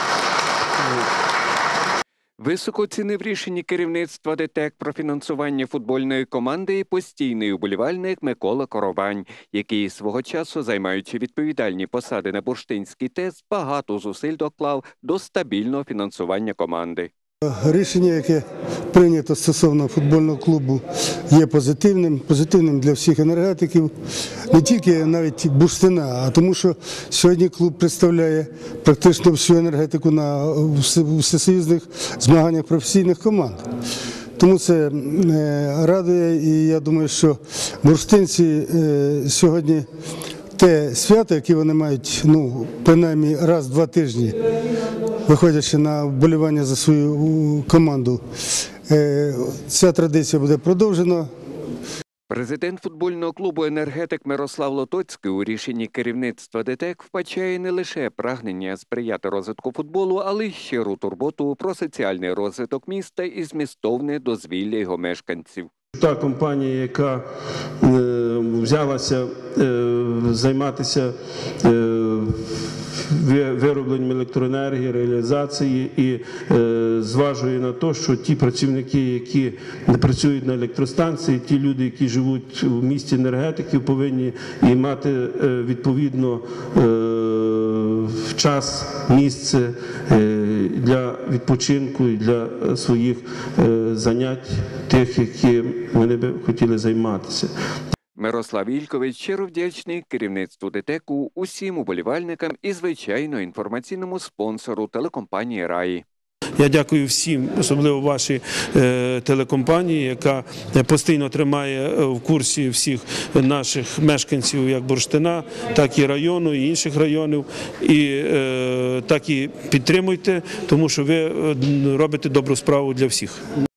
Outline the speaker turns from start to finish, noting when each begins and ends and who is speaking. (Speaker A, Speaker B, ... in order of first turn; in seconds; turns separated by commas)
Speaker A: 2.4-17.1, Speaker B: 17.4-23.9, Speaker B: 24.5-33.6, Speaker B: 34.4-39.9, Speaker B: 40.5-44.4, Speaker B: 45.2-48.2, Speaker B: 48.9-51.3, Speaker A: 52.3-65.7, Speaker C: 65.9-67.2, Speaker C: 67.8-72.4, Speaker C: 72.9-97.5, Speaker A: 98.2-106.0, Speaker C: 106.6-123.4